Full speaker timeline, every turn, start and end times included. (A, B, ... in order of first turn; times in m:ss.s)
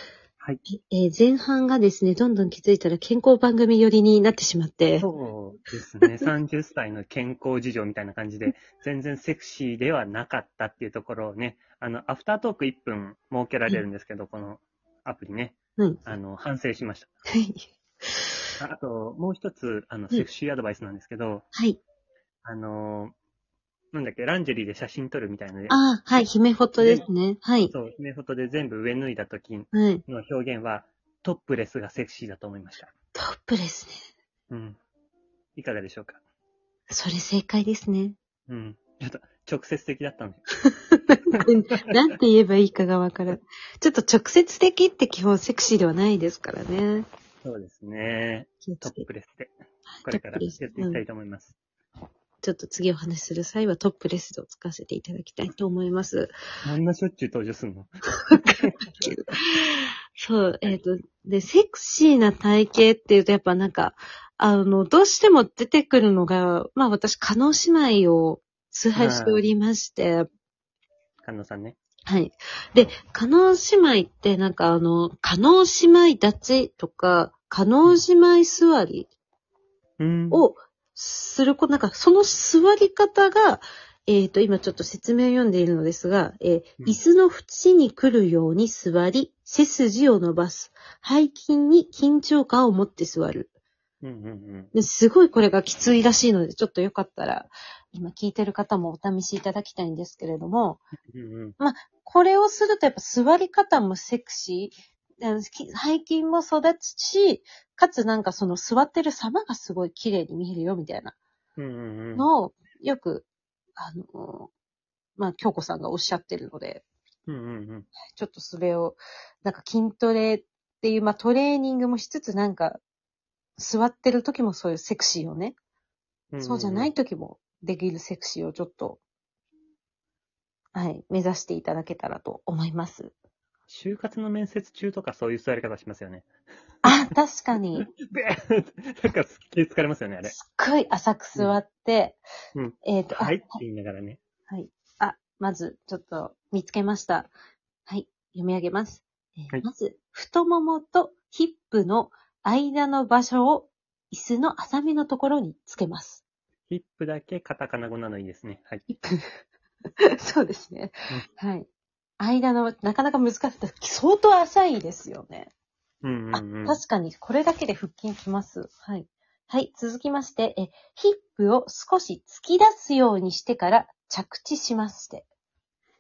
0:00.7-0:05.1 A
0:05.0-0:17.1 B
0:17.3-0:18.3 A
0:18.6-0:21.4 B
0:21.5-0:21.8 A
0:22.4-0:23.1 B
0:23.9-0:26.3 B
0:25.7-0:27.7 A
0:26.8-0:27.0 B
0:27.7-0:32.9 B
0:29.7-0:30.0 A
0:33.2-0:34.1 A
0:34.5-0:34.8 B
0:35.6-0:36.2 B
0:36.9-0:38.2 A
0:38.5-0:40.4 B
0:40.6-0:47.1 A
0:41.4-0:42.0 B
0:47.4-0:49.5 B
0:48.6-0:49.0 A
0:49.9-0:51.0 A
0:50.0-0:51.6 B
0:52.4-0:56.3 A
0:56.6-0:59.1 B
0:58.3-1:10.3 A
1:09.0-1:09.5 B
1:11.2-1:11.8 B
1:12.1-1:19.1 A
1:20.0-1:20.5 B
1:20.3-1:33.5 A
1:34.0-1:34.7 B
1:34.7-1:40.8 A
1:41.1-1:41.6 B
1:41.6-1:51.2 A
1:51.6-1:52.3 B
1:52.2-1:53.3 A
1:53.8-1:54.5 A
1:55.2-1:56.8 A
1:57.3-1:57.9 B
1:58.1-2:02.8 A
2:03.6-2:05.6 A
2:06.3-2:06.9 B
2:06.4-2:09.0 A
2:10.7-2:13.1 A
2:13.7-2:16.3 B
2:16.8-2:17.9 A
2:17.8-2:20.3 B
2:20.3-2:22.2 A
2:22.6-2:24.2 B
2:22.8-2:23.6 A
2:24.5-2:27.3 A
2:27.9-2:36.2 A
2:36.7-2:38.8 B
2:38.9-2:39.4 A
2:40.2-2:41.7 A
2:42.2-2:45.5 A
2:46.0-2:46.8 B
2:46.3-2:55.3 A